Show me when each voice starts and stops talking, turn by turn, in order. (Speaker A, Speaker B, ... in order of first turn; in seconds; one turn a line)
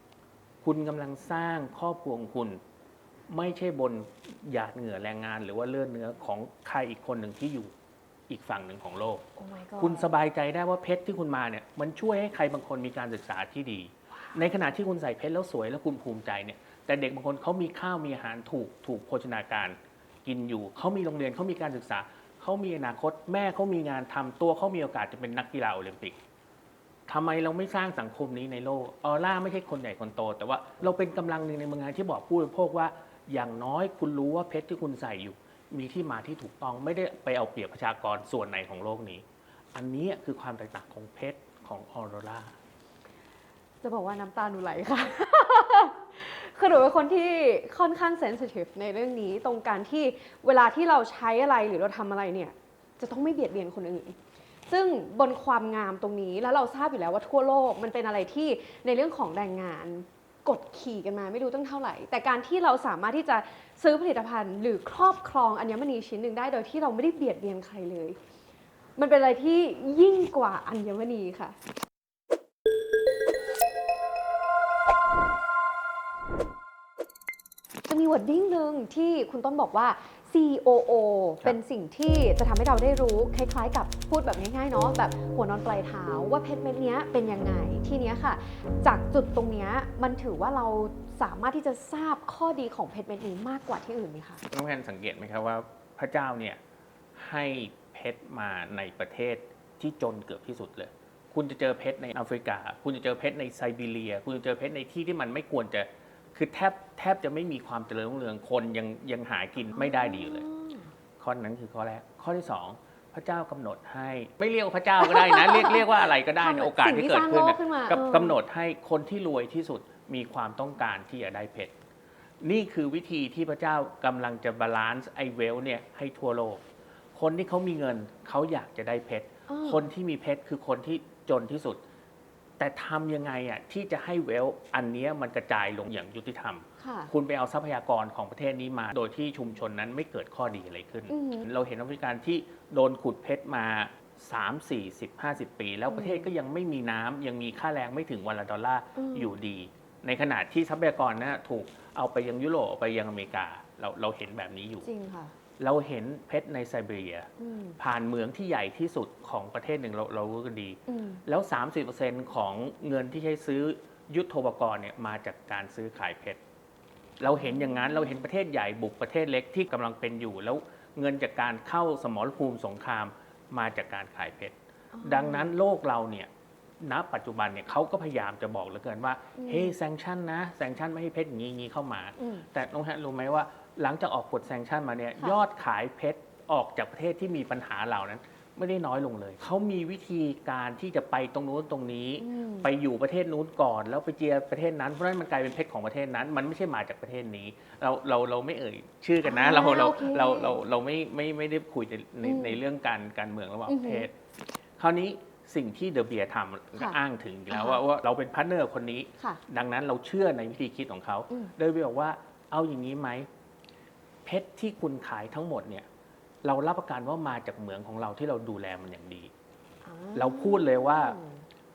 Speaker A: 0.6-2.6
Speaker A: 3.3-7.7
Speaker A: 8.3-9.2
Speaker B: 9.4-10.1
Speaker A: 9.8-26.1
Speaker A: 27.1-39.2
Speaker A: 39.7-42.5
Speaker B: 43.8-54.1
Speaker B: 54.7-68.2
Speaker B: 69.0-71.5
Speaker B: 77.9-94.4
Speaker A: 94.5-96.6
Speaker A: 97.1-110.5
Speaker B: 109.7-110.9
Speaker A: 111.2-121.7
Speaker B: 115.0-118.4
Speaker A: 122.4-126.6
Speaker A: 127.1-131.8
Speaker B: 129.5-129.8
Speaker A: 132.6-154.9
Speaker B: 136.8-137.1
Speaker B: 141.1-141.5
Speaker B: 145.9-146.3
Speaker B: 148.9-149.3
Speaker B: 154.8-155.3
Speaker A: 155.6-166.4
Speaker B: 157.4-157.8
Speaker B: 160.9-161.2
Speaker A: 167.2-176.3
Speaker B: 167.3-168.0
Speaker B: 174.9-175.5
Speaker A: 176.8-204.1
Speaker B: 179.4-179.7
Speaker B: 182.2-182.4
Speaker B: 192.2-192.7
Speaker B: 199.2-200.6
Speaker B: 202.2-202.6
Speaker B: 203.7-204.1
Speaker A: 204.8-213.3
Speaker B: 207.5-207.8
Speaker A: 214.2-215.8
Speaker A: 216.4-219.3
Speaker B: 219.8-221.4
Speaker A: 220.1-221.2